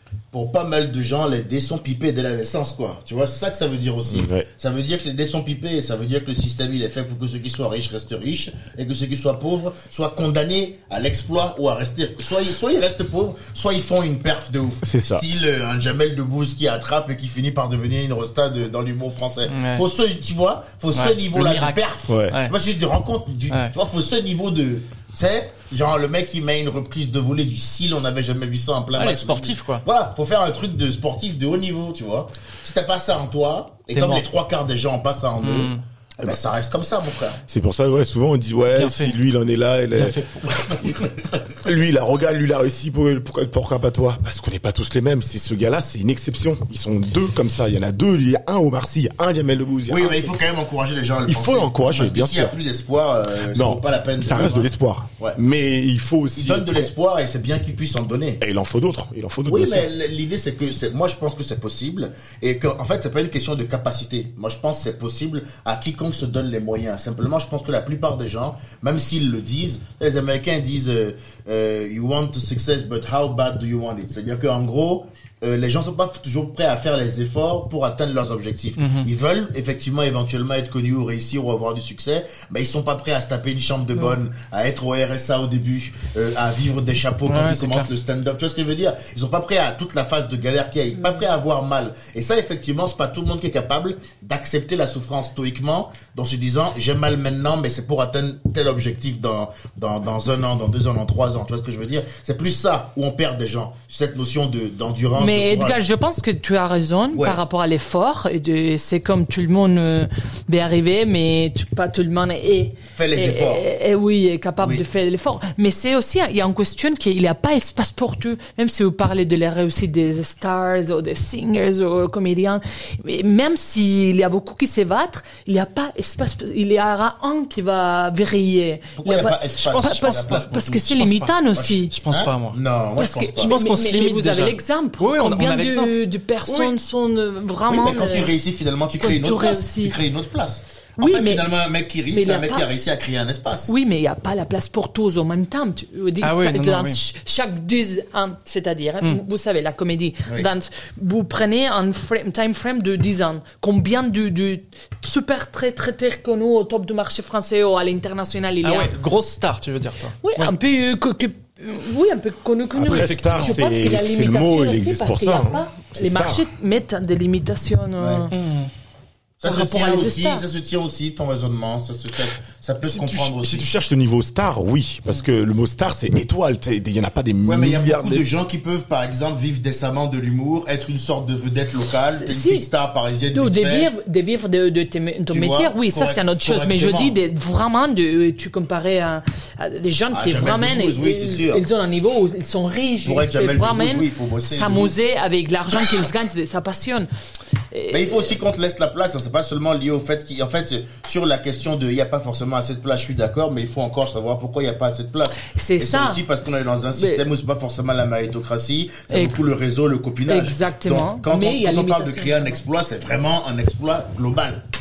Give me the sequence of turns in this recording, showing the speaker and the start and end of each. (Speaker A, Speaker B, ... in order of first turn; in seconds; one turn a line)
Speaker A: 0.3-37.4
Speaker B: 4.1-4.5
Speaker B: 14.8-15.2
Speaker C: 19.5-19.9
Speaker C: 20.9-22.6
Speaker B: 22.1-22.4
Speaker C: 28.9-29.9
Speaker C: 33.9-34.3
Speaker C: 35.4-35.8
Speaker B: 37.5-50.3
Speaker C: 38.7-39.2
Speaker C: 39.9-41.0
Speaker A: 49.9-55.4
Speaker B: 51.3-52.6
Speaker B: 53.5-56.9
Speaker A: 56.4-58.4
Speaker B: 58.4-59.9
Speaker A: 59.5-105.8
Speaker C: 78.8-79.1
Speaker C: 87.3-87.9
Speaker D: 105.2-131.9
Speaker A: 107.1-107.4
Speaker A: 112.9-113.6
Speaker A: 129.0-133.6
Speaker C: 129.6-130.3
Speaker C: 131.9-132.6
Speaker D: 133.0-138.3
Speaker C: 133.4-136.7
Speaker A: 137.7-143.7
Speaker D: 139.0-140.0
Speaker D: 141.0-141.5
Speaker D: 142.1-142.7
Speaker D: 143.7-158.9
Speaker C: 146.2-147.0
Speaker C: 158.6-160.5
Speaker D: 160.2-168.3
Speaker B: 162.8-166.4
Speaker C: 162.8-163.6
Speaker A: 168.0-168.3
Speaker C: 168.3-168.7
Speaker A: 169.4-173.7
Speaker D: 169.4-170.4
Speaker B: 172.8-178.3
Speaker A: 177.5-183.9
Speaker D: 182.1-182.7
Speaker D: 183.3-197.1
Speaker A: 185.3-187.2
Speaker A: 190.1-191.7
Speaker A: 193.1-194.9
Speaker D: 197.7-198.4
Speaker A: 197.9-214.6
Speaker D: 205.4-207.2
Speaker D: 209.1-209.4
Speaker D: 210.3-212.6